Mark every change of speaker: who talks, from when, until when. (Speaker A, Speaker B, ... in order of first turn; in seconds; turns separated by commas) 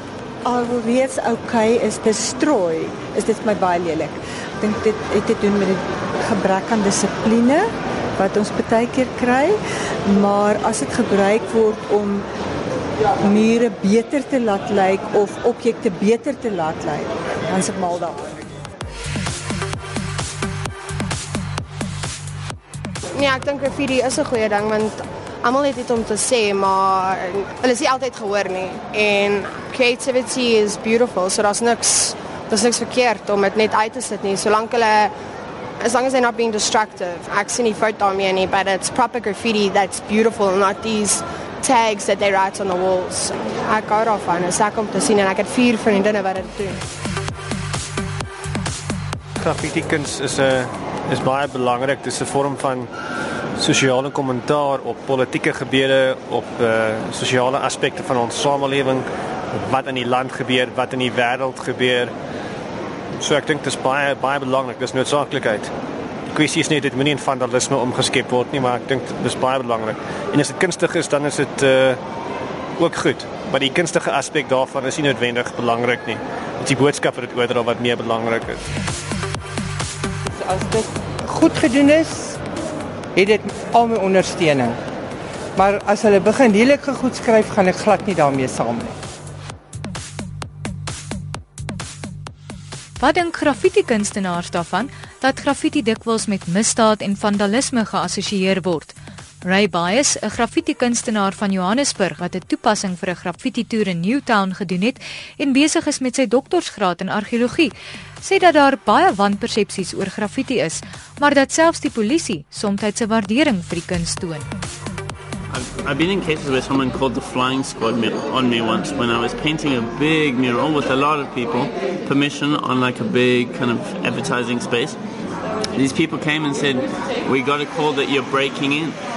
Speaker A: 0.4-12.2, Speaker A: 13.2-18.3, Speaker B: 23.1-35.1, Speaker B: 35.8-46.8, Speaker C: 49.4-52.9, Speaker C: 53.6-62.1, Speaker C: 63.2-65.7, Speaker C: 66.3-72.0, Speaker C: 72.8-78.6, Speaker D: 80.3-82.4, Speaker D: 83.1-84.8, Speaker D: 85.5-88.9, Speaker E: 93.0-114.5, Speaker F: 115.5-125.0, Speaker F: 125.7-129.0